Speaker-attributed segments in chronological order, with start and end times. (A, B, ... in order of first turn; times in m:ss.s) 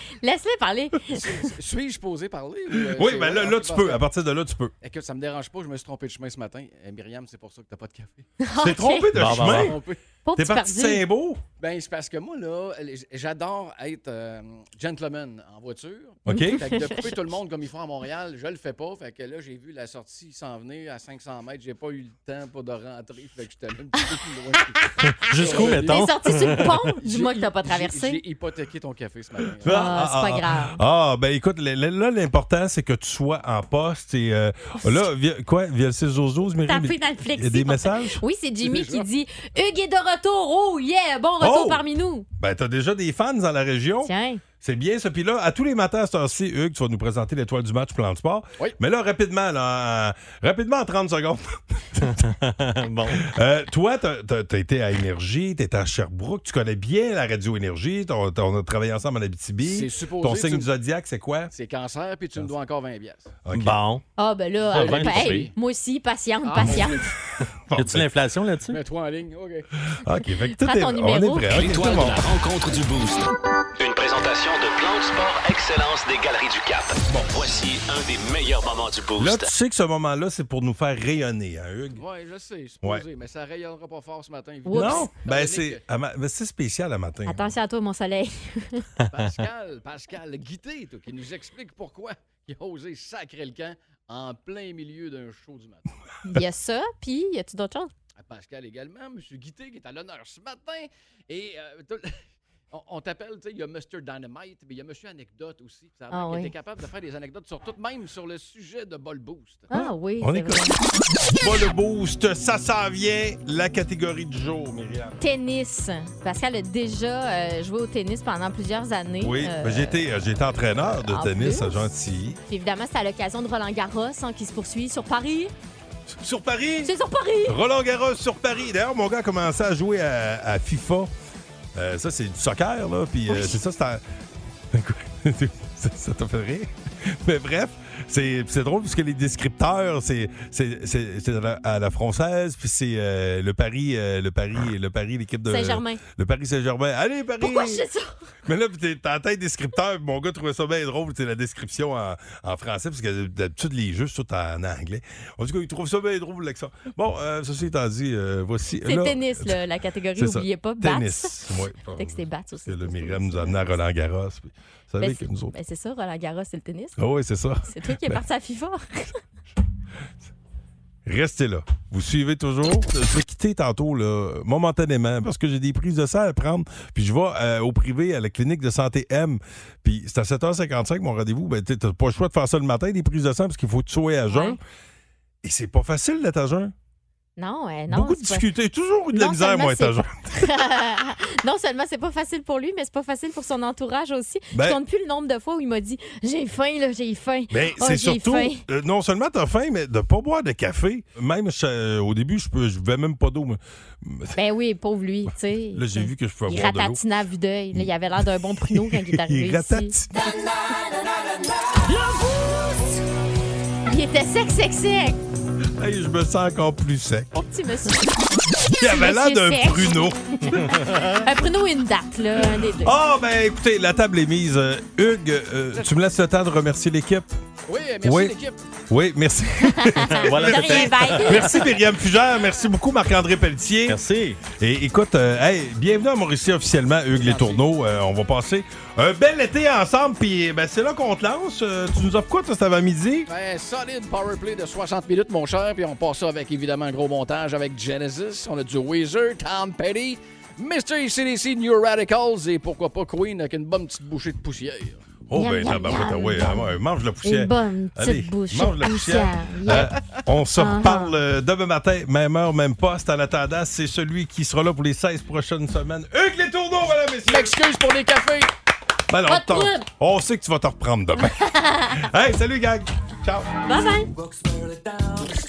0:00.2-0:01.1 A
0:01.1-0:04.0 B
0:03.0-0:04.7 C
0:04.8-0:08.3 B
0:08.4-0:09.1 A
0:08.6-0:09.8 C
0:09.1-0:09.8 D
0:09.4-0:10.0 B
0:10.2-0:11.0 A
0:10.4-0:11.4 C
0:11.6-0:29.9 B
0:16.2-0:16.6 C
0:16.3-0:17.0 A
0:25.3-0:26.7 D
0:25.3-0:28.2 A
0:29.6-0:38.2 C
0:29.6-0:30.8 A
0:36.7-0:42.2 A
0:38.6-0:39.1 B
0:41.4-0:41.8 C
0:42.4-0:52.1 C
0:44.0-0:44.4 A
0:52.6-0:53.2 D
0:53.2-1:01.5 C
0:59.6-1:00.7 B
1:01.5-1:03.3 B
1:03.4-1:03.8 C
1:03.5-1:04.0 D
1:04.2-1:07.0 A
1:04.7-1:05.5 B
1:04.7-1:05.5 D
1:06.4-1:07.1 B
1:07.7-1:08.1 C
1:07.7-1:08.8 D
1:08.7-1:09.6 B
1:10.0-1:12.2 C
1:10.6-1:11.5 A
1:11.5-1:19.5 E
1:19.2-1:22.0 C
1:21.9-1:25.8 B
1:24.6-1:25.1 A
1:24.7-1:27.5 C
1:27.3-1:28.8 A
1:29.1-1:35.9 B
1:36.2-1:37.9 A
1:38.2-1:49.7 B
1:46.1-1:46.5 A
1:49.7-1:50.7 A
1:50.2-1:50.7 C
1:51.3-1:55.2 C
1:55.2-2:00.0 A
1:59.2-2:02.4 C
2:01.1-2:01.8 A
2:02.5-2:05.5 A
2:06.1-2:06.9 C
2:06.8-2:07.6 A
2:07.4-2:11.1 C
2:11.7-2:14.0 C
2:13.3-2:13.5 A
2:14.7-2:27.8 C
2:25.5-2:26.0 A
2:27.4-2:28.1 A
2:28.4-2:39.5 C
2:38.8-2:41.3 A
2:40.2-2:45.5 C
2:41.9-2:43.8 A
2:45.0-2:47.0 A
2:47.0-2:48.2 C
2:47.6-2:49.1 A
2:51.0-3:04.6 C
3:04.3-3:04.6 A
3:05.4-3:06.7 C
3:07.4-3:08.4 A
3:07.9-3:10.4 C
3:09.1-3:18.6 A
3:14.5-3:14.8 C
3:17.5-3:24.4 C
3:24.3-3:29.9 A
3:25.7-3:27.0 C
3:27.7-3:30.2 C
3:33.8-3:35.2 A
3:35.8-3:37.3 C
3:37.3-3:38.2 A
3:38.7-3:40.0 A
3:38.7-3:41.1 C
3:40.7-3:42.9 A
3:42.8-3:47.3 C
3:47.7-3:48.6 B
3:48.0-3:48.3 C
3:48.9-3:54.0 C
3:49.8-3:51.6 A
3:50.2-3:51.6 D
3:53.9-3:54.4 D
3:54.5-4:03.3 C
3:57.2-3:57.6 B
4:03.3-4:15.0 B
4:15.3-4:27.5 C
4:15.4-4:16.7 A
4:17.2-4:19.9 A
4:20.6-4:21.1 A
4:27.2-4:28.5 B
4:29.1-4:33.5 C
4:29.3-4:29.8 A
4:31.6-4:32.0 A
4:33.6-4:34.1 A